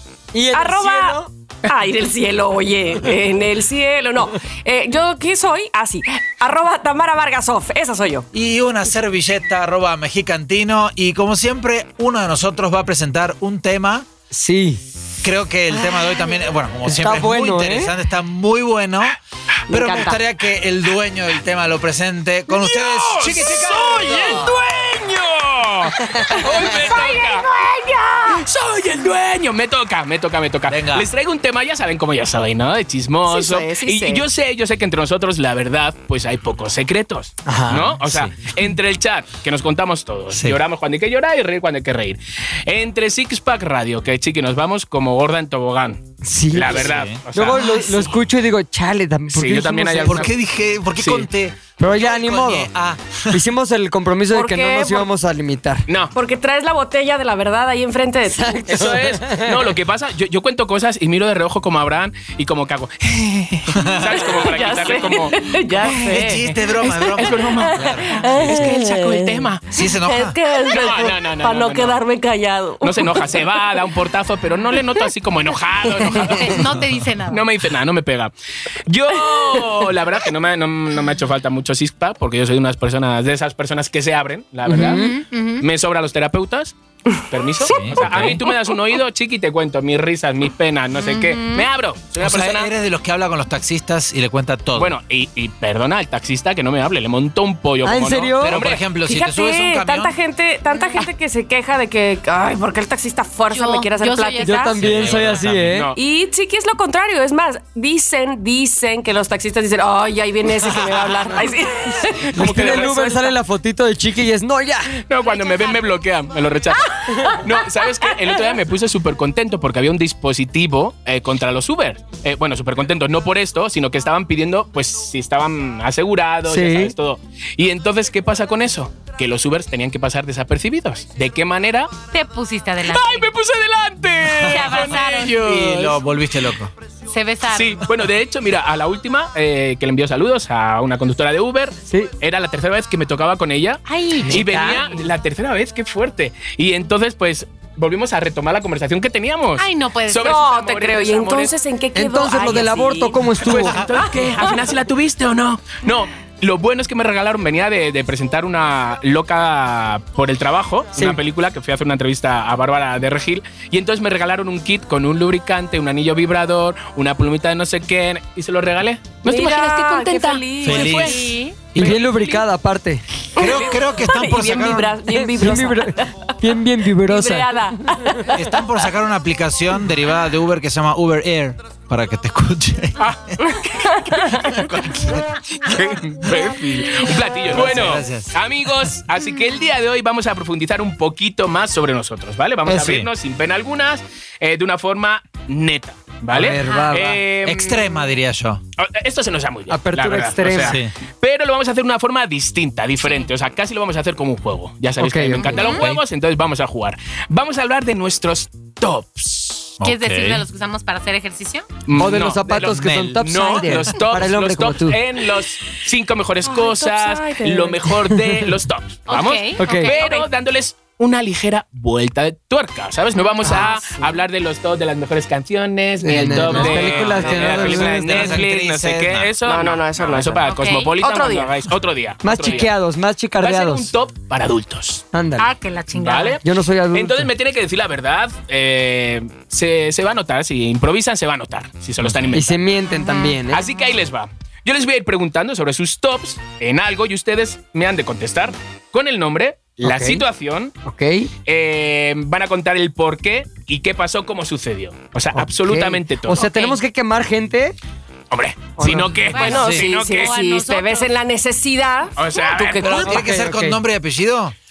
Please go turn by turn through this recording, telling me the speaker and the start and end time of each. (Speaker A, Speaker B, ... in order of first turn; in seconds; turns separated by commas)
Speaker A: 0.3-1.3, Speaker B: 0.5-8.3, Speaker C: 8.3-14.1, Speaker A: 14.3-14.8, Speaker C: 15.2-19.2, Speaker A: 15.7-16.3, Speaker A: 16.8-17.9, Speaker C: 19.7-24.5, Speaker B: 19.7-20.2, Speaker D: 22.5-27.5, Speaker A: 26.0-26.7, Speaker B: 27.6-28.4, Speaker D: 28.3-46.0, Speaker C: 30.7-31.1, Speaker B: 33.3-34.2, Speaker A: 37.5-37.9, Speaker C: 37.7-38.4, Speaker C: 40.3-40.6, Speaker A: 46.2-50.3, Speaker D: 46.5-48.0, Speaker C: 46.7-47.2, Speaker D: 49.3-50.3, Speaker C: 50.0-53.4, Speaker D: 51.0-51.3, Speaker A: 51.8-52.7, Speaker A: 53.3-55.9, Speaker B: 54.3-55.1, Speaker D: 55.9-56.1, Speaker B: 56.1-58.7, Speaker A: 58.3-59.7, Speaker D: 58.7-69.7, Speaker C: 63.7-64.0, Speaker B: 63.9-73.8, Speaker C: 65.9-68.6, Speaker C: 69.7-70.4, Speaker D: 70.6-72.0, Speaker D: 72.8-76.7, Speaker B: 74.7-75.0, Speaker E: 76.2-77.4, Speaker D: 77.3-78.3, Speaker D: 78.9-92.7, Speaker B: 79.3-79.7, Speaker A: 84.7-85.2, Speaker E: 84.8-85.7, Speaker B: 87.6-88.7, Speaker C: 87.7-88.4, Speaker E: 91.0-91.7, Speaker C: 92.2-94.9, Speaker D: 94.8-98.8, Speaker A: 97.8-98.7, Speaker C: 98.4-100.2, Speaker B: 99.0-104.8, Speaker E: 100.7-101.0, Speaker E: 103.5-105.2, Speaker A: 104.4-105.9, Speaker C: 104.8-105.8, Speaker D: 105.5-106.0, Speaker B: 106.0-113.3, Speaker A: 112.3-115.0, Speaker D: 112.3-113.0, Speaker D: 115.1-131.9, Speaker E: 115.2-115.9, Speaker B: 116.9-117.5, Speaker A: 126.5-126.9, Speaker E: 132.1-133.3, Speaker D: 132.8-136.0, Speaker C: 134.3-136.7, Speaker E: 134.4-135.4, Speaker E: 137.1-137.8, Speaker D: 137.5-151.5, Speaker E: 143.8-144.4, Speaker A: 144.2-144.9, Speaker E: 149.6-150.4, Speaker B: 150.2-154.7, Speaker A: 151.9-153.8, Speaker D: 153.4-172.4, Speaker C: 153.6-154.1, Speaker B: 169.2-171.3, Speaker C: 170.6-172.0, Speaker E: 171.0-171.6, Speaker A: 171.7-173.0, Speaker C: 173.4-175.0, Speaker B: 173.4-176.2, Speaker A: 175.1-178.3, Speaker B: 177.1-178.6, Speaker C: 178.3-183.1, Speaker D: 183.0-184.7, Speaker B: 183.6-184.5, Speaker C: 184.4-185.3, Speaker D: 185.6-197.8, Speaker C: 187.4-188.3, Speaker C: 192.7-193.1, Speaker A: 196.3-197.2, Speaker E: 196.6-197.0, Speaker C: 197.4-198.6, Speaker D: 198.8-209.7, Speaker A: 199.7-200.8, Speaker C: 200.6-200.9, Speaker A: 205.0-205.6, Speaker E: 205.4-205.8, Speaker C: 205.7-206.0, Speaker C: 209.8-210.4, Speaker E: 209.8-211.7, Speaker D: 211.9-232.7, Speaker A: 211.9-215.0, Speaker C: 212.8-213.9, Speaker B: 216.4-217.9, Speaker A: 218.1-218.4, Speaker E: 219.1-219.9, Speaker A: 219.6-219.9, Speaker B: 219.9-220.3, Speaker E: 223.2-223.9, Speaker A: 226.0-228.4, Speaker C: 226.3-229.3, Speaker B: 226.7-227.6, Speaker B: 229.4-231.5, Speaker E: 230.4-230.9, Speaker A: 232.2-233.9, Speaker D: 233.4-235.0, Speaker A: 235.1-235.5, Speaker E: 235.4-236.4, Speaker D: 235.9-242.6, Speaker A: 236.4-237.3, Speaker A: 242.3-243.6, Speaker E: 242.9-243.4, Speaker D: 243.5-250.7, Speaker A: 249.8-250.2, Speaker A: 250.8-251.3, Speaker D: 251.5-256.4, Speaker A: 255.3-257.8, Speaker E: 256.3-256.8, Speaker D: 258.3-260.4, Speaker A: 258.8-259.3, Speaker E: 259.3-261.1, Speaker B: 259.3-263.3, Speaker C: 259.6-259.9, Speaker D: 262.2-263.1, Speaker C: 262.8-264.5, Speaker A: 263.1-263.8